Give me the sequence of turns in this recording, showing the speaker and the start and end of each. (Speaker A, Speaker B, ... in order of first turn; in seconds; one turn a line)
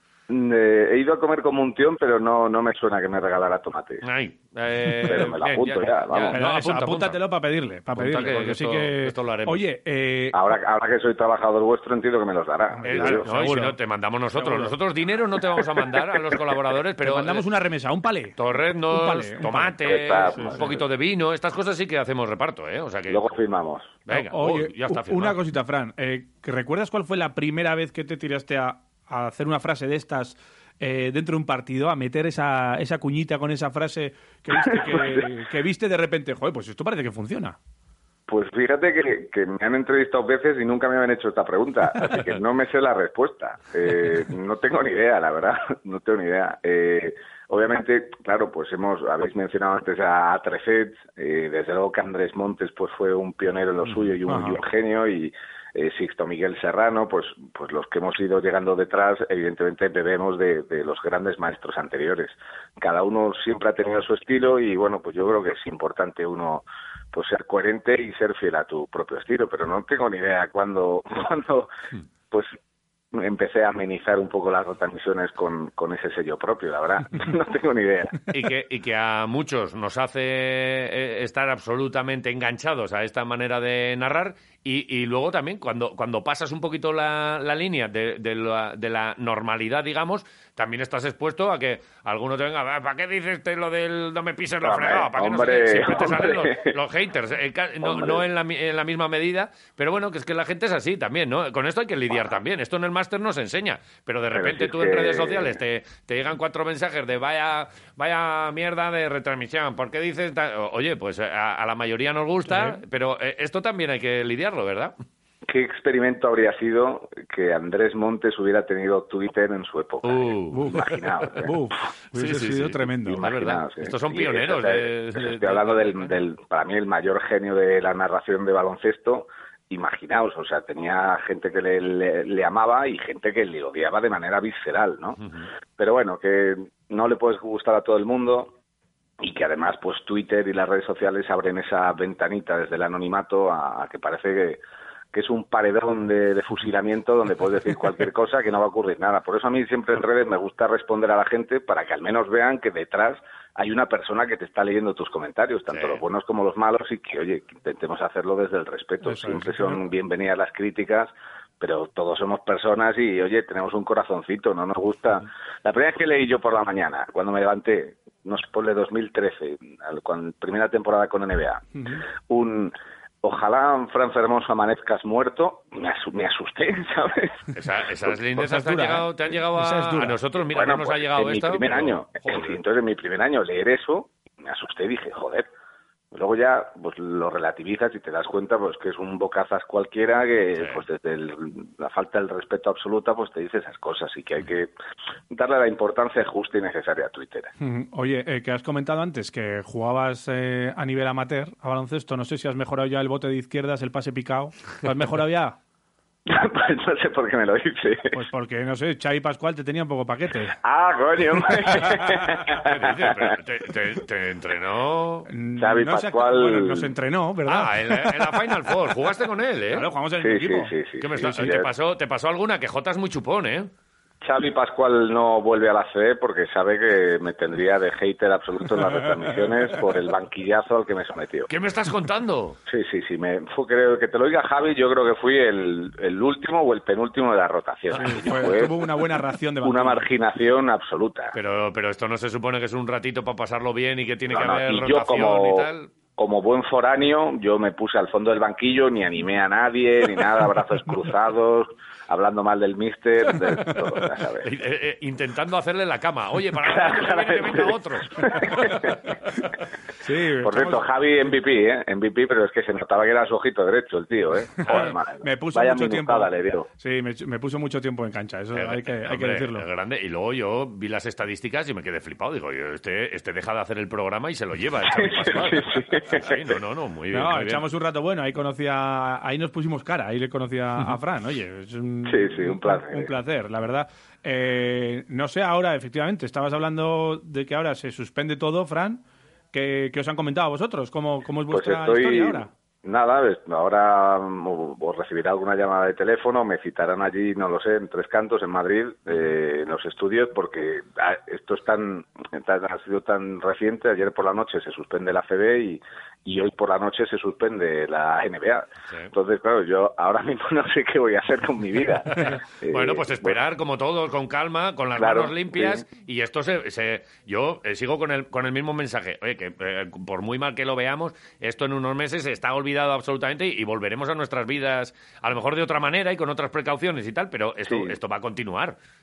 Speaker A: 0.3-4.0
Speaker B: 4.0-7.2
Speaker A: 5.0-6.4
Speaker C: 6.3-10.4
Speaker B: 8.0-9.6
Speaker A: 10.3-13.3
Speaker C: 12.8-13.8
Speaker B: 12.9-17.4
Speaker C: 14.4-14.7
Speaker C: 17.0-18.4
Speaker B: 18.4-23.2
Speaker C: 18.9-19.7
Speaker A: 19.8-20.8
Speaker C: 20.3-20.7
Speaker A: 23.1-24.0
Speaker B: 24.1-25.4
Speaker C: 24.1-37.6
Speaker A: 34.5-35.3
Speaker A: 38.3-71.7
Speaker C: 54.3-54.6
Speaker A: 73.1-78.2
Speaker B: 78.3-114.9
Speaker A: 94.6-96.8
Speaker A: 97.8-98.2
Speaker A: 104.3-105.6
Speaker C: 112.5-112.8
Speaker A: 115.5-121.5
Speaker B: 120.0-120.7
Speaker C: 120.5-123.2
Speaker B: 122.1-126.2
Speaker A: 122.9-135.2
Speaker B: 135.2-135.5
Speaker A: 135.8-138.6
Speaker A: 139.2-144.6
Speaker A: 145.1-171.7
Speaker B: 155.7-156.0
Speaker C: 159.0-159.8
Speaker C: 171.8-172.0
Speaker A: 172.3-177.4
Speaker B: 177.5-182.6
Speaker C: 178.3-180.2
Speaker A: 180.5-185.5
Speaker A: 186.1-194.7
Speaker B: 190.6-190.8
Speaker A: 195.3-197.5
Speaker C: 197.6-205.6
Speaker A: 206.3-208.2
Speaker C: 208.1-210.6
Speaker A: 210.6-213.1
Speaker B: 212.6-215.3
Speaker C: 215.3-218.6
Speaker A: 215.6-217.0
Speaker B: 217.5-219.8
Speaker C: 219.7-220.7
Speaker A: 220.2-221.7
Speaker B: 221.0-223.7
Speaker A: 224.2-231.5
Speaker B: 231.5-232.6
Speaker A: 232.7-241.3
Speaker C: 237.9-240.1
Speaker B: 241.3-245.9
Speaker A: 244.3-254.5
Speaker B: 254.4-259.0
Speaker A: 256.6-258.9
Speaker C: 260.0-260.8
Speaker A: 260.4-266.7
Speaker C: 264.6-269.6
Speaker B: 264.6-265.0
Speaker B: 268.5-277.6
Speaker A: 274.9-276.4
Speaker C: 277.1-292.5
Speaker A: 282.1-283.1
Speaker A: 291.5-313.4
Speaker B: 312.1-328.8
Speaker A: 315.0-315.8
Speaker A: 327.7-328.0